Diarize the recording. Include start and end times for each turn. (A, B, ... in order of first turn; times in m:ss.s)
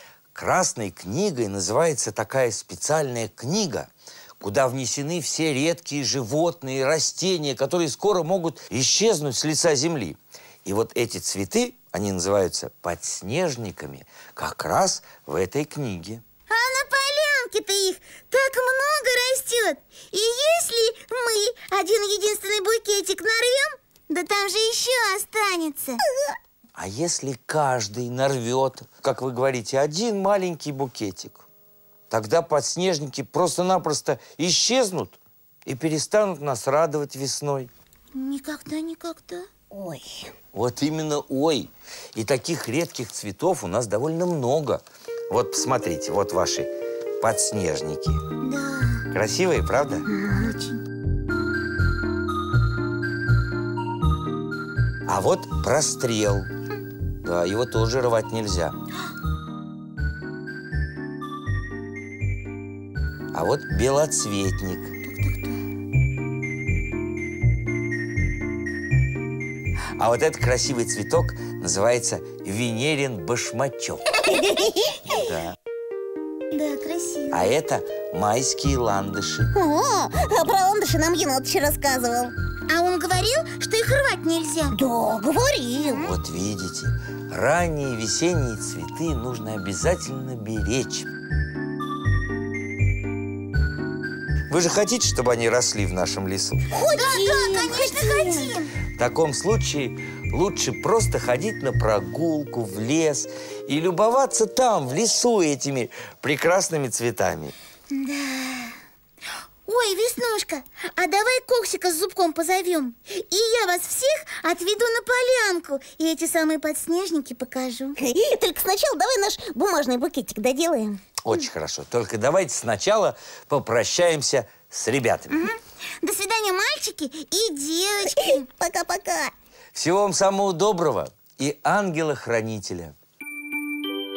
0:00.4-0:16.2 A
0:16.5-0:26.0 B
0:26.8-0:31.4 A
0:32.1-0:37.7 A
0:38.1-0:39.5 B
0:39.7-0:40.3 C
0:40.5-0:48.2 A
0:48.4-0:49.1 B
0:49.1-0:50.1 A
0:50.1-0:50.6 C
0:50.4-0:50.8 B
0:55.1-0:56.5 A
0:57.2-0:58.8 A
1:03.3-1:04.9 A
1:05.0-1:05.6 B
1:10.0-1:14.1 A
1:14.2-1:15.2 C
1:15.1-1:15.6 A
1:16.5-1:17.5 B
1:17.3-1:19.5 A
1:19.5-1:22.3 C
1:22.7-1:24.8 B
1:24.7-1:26.1 C
1:26.0-1:31.1 A
1:34.5-1:36.6 A
1:36.7-1:38.5 C
1:36.9-1:38.7 B
1:39.0-1:47.6 A
1:47.9-1:48.8 B
1:49.7-1:58.0 B
1:58.0-2:01.0 C
2:01.2-2:05.4 A
2:05.3-2:08.5 B
2:08.0-2:09.3 C
2:09.7-2:13.0 A